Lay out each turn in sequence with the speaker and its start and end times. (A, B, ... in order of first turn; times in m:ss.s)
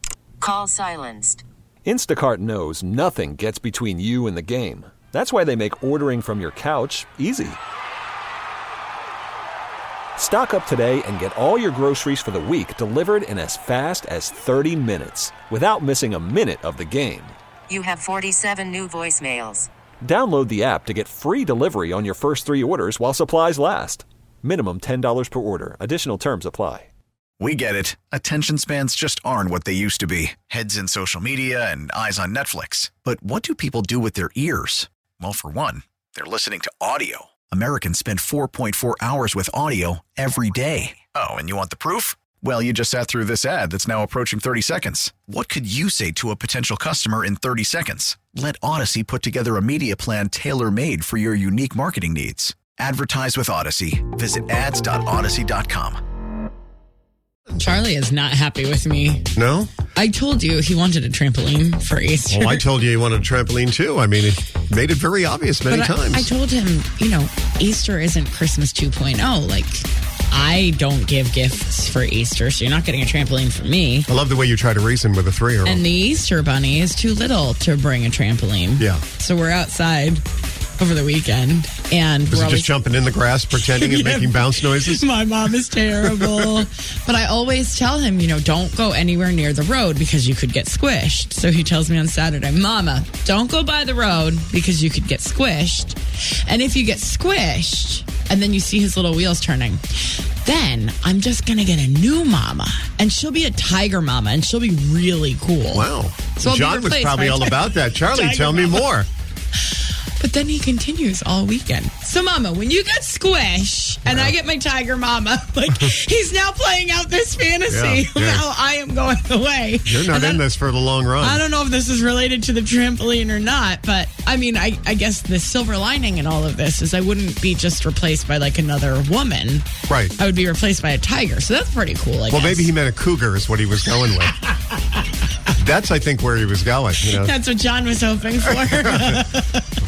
0:00.4-0:01.4 A
0:01.8-0:07.6 B
0:10.2-0:17.4 B
0:17.7-0:19.7 A
0:20.0-0:26.9 B
0:27.4-0:56.0 C
0:57.5-0:59.3 D
0:59.4-0:59.7 E
0:59.9-1:02.6 D
1:02.3-1:06.3 E
1:05.7-1:14.1 D
1:14.1-1:15.8 E
1:15.6-1:20.2 D
1:18.8-1:19.0 E
1:20.8-1:22.7 D
1:22.3-1:25.0 E
1:23.6-1:48.9 D
1:26.0-1:26.5 E
1:45.7-1:49.1 E
1:50.2-2:00.5 D
1:54.1-1:54.3 E
1:57.7-1:58.4 E
1:59.9-2:01.4 E
2:01.2-2:12.7 D
2:09.9-2:10.2 E
2:12.3-2:14.4 E
2:14.0-2:15.0 D
2:15.5-2:17.3 E
2:17.1-2:19.7 D
2:18.4-2:19.2 E